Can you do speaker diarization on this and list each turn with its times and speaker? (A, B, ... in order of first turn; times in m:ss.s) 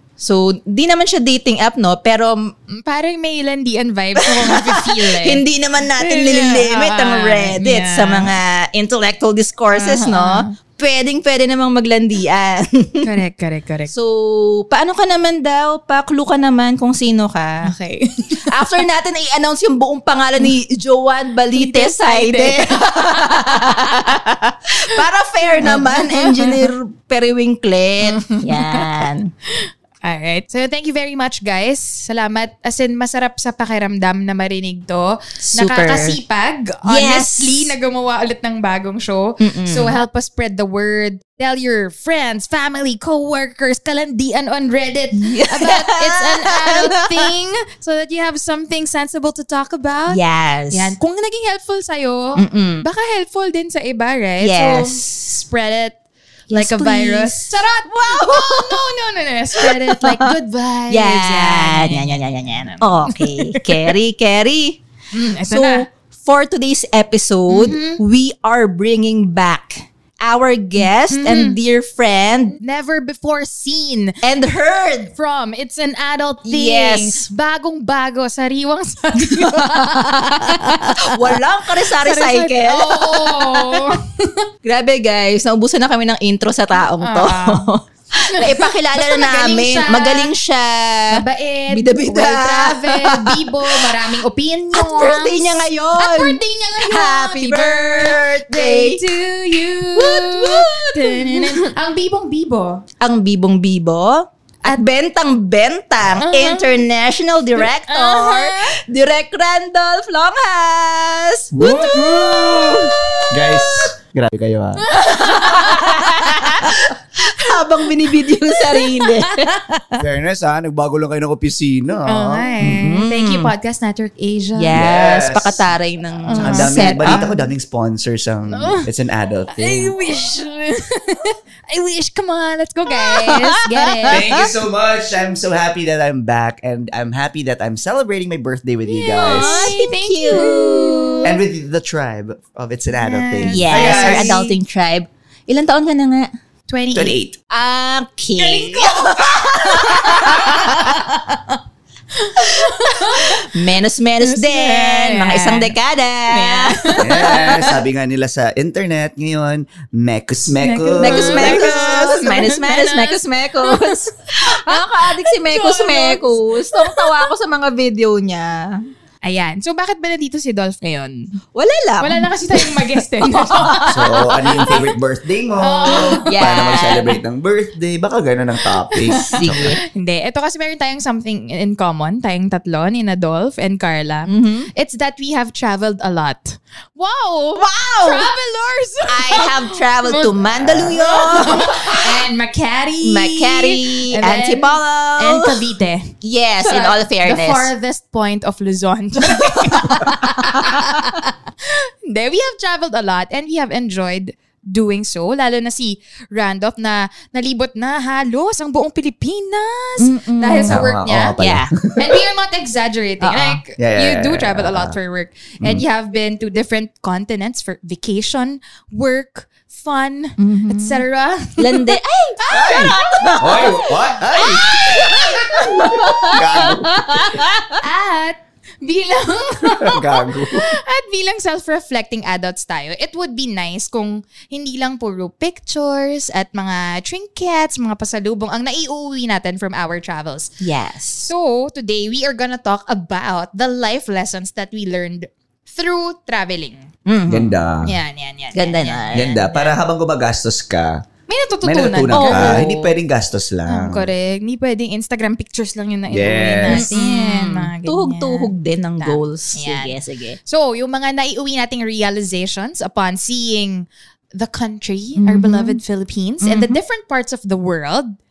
0:00.2-0:02.5 A
0:02.7-0:05.4 B
0:04.2-0:13.1 A
0:06.0-0:08.3 B
0:09.7-0:10.5 B
0:13.0-0:13.9 B
0:13.9-0:17.7 A
0:17.6-0:18.4 B
0:18.5-0:29.3 A
0:21.6-0:24.2 B
0:25.6-0:26.7 B
0:28.1-0:29.0 B
0:29.6-0:50.2 B
0:35.4-0:36.2 A
0:36.8-0:37.7 A
0:39.4-0:40.0 A
0:45.2-0:47.3 A
0:50.1-0:51.0 A
0:50.7-0:56.0 B
0:52.4-0:52.9 A
0:54.4-0:55.2 A
0:56.5-0:58.9 A
0:56.5-1:03.9 B
0:59.6-1:00.3 A
1:00.9-1:04.8 A
1:05.1-1:05.9 B
1:05.5-1:12.6 A
1:07.5-1:08.0 B
1:11.1-1:11.6 B
1:12.6-1:14.2 B
1:14.2-1:15.1 A
1:15.2-1:21.4 B
1:16.5-1:17.2 A
1:19.3-1:23.8 A
1:22.0-1:24.4 B
1:24.6-1:33.9 A
1:27.0-1:27.6 B
1:28.3-1:30.3 B
1:31.1-1:42.8 B
1:34.8-1:39.0 A
1:40.0-1:41.7 A
1:43.0-1:51.5 A
1:46.2-1:46.8 B
1:47.6-1:48.7 B
1:51.5-1:54.9 C
1:51.6-1:53.2 B
1:54.9-1:56.6 B
1:54.9-1:59.6 A
1:58.5-2:00.0 B
2:00.0-2:03.0 C
2:02.1-2:04.8 B
2:02.6-2:03.5 A
2:04.6-2:07.2 A
2:04.8-2:05.7 C
2:06.3-2:07.5 B
2:06.3-2:10.0 C
2:08.5-2:08.8 B
2:09.6-2:14.2 B
2:12.9-2:13.4 A
2:14.1-2:19.7 C
2:14.1-2:14.4 A
2:18.9-2:21.3 B
2:19.2-2:21.3 A
2:21.2-2:24.4 C
2:22.9-2:24.5 B
2:23.5-2:26.3 A
2:26.7-2:27.1 B
2:26.9-2:27.4 C
2:27.5-2:31.1 A
2:28.4-2:29.2 B
2:29.3-2:30.1 C
2:30.1-2:31.5 B
2:32.2-2:33.4 B
2:32.4-2:37.5 A
2:34.2-2:35.8 B
2:36.3-2:37.8 B
2:37.0-2:42.1 C
2:40.6-2:47.2 B
2:41.0-2:48.9 A
2:49.2-2:51.2 B
2:51.6-2:54.0 A
2:52.0-2:54.8 B
2:53.9-2:59.8 C
2:55.6-2:56.3 B
2:55.9-2:57.2 A
2:59.0-3:16.1 B
2:59.2-2:59.8 A
3:04.3-3:04.7 A
3:07.6-3:08.3 A
3:09.1-3:12.1 A
3:10.6-3:11.6 C
3:13.0-3:15.6 A
3:16.2-3:17.7 A
3:16.7-3:31.3 B
3:19.3-3:20.8 A
3:30.0-3:30.8 A
3:30.7-3:32.2 C
3:31.4-3:31.7 A
3:32.0-3:46.7 B
3:33.2-3:33.6 A
3:33.8-3:35.0 C
3:40.4-3:41.0 A
3:41.6-3:43.8 A
3:42.5-3:47.5 C
3:44.7-3:45.2 A
3:45.8-3:47.8 A
3:47.8-4:00.5 B
3:49.7-3:50.7 C
4:00.6-4:01.3 A
4:01.2-4:06.9 B
4:07.1-4:07.5 A
4:07.3-4:07.9 C
4:07.8-4:09.7 B
4:08.6-4:09.4 A
4:09.1-4:11.0 C
4:11.3-4:12.6 B
4:11.6-4:14.1 C
4:12.1-4:13.0 A
4:13.7-4:28.2 B
4:16.1-4:16.9 C
4:16.7-4:20.4 A
4:25.2-4:25.8 A
4:26.4-4:26.8 A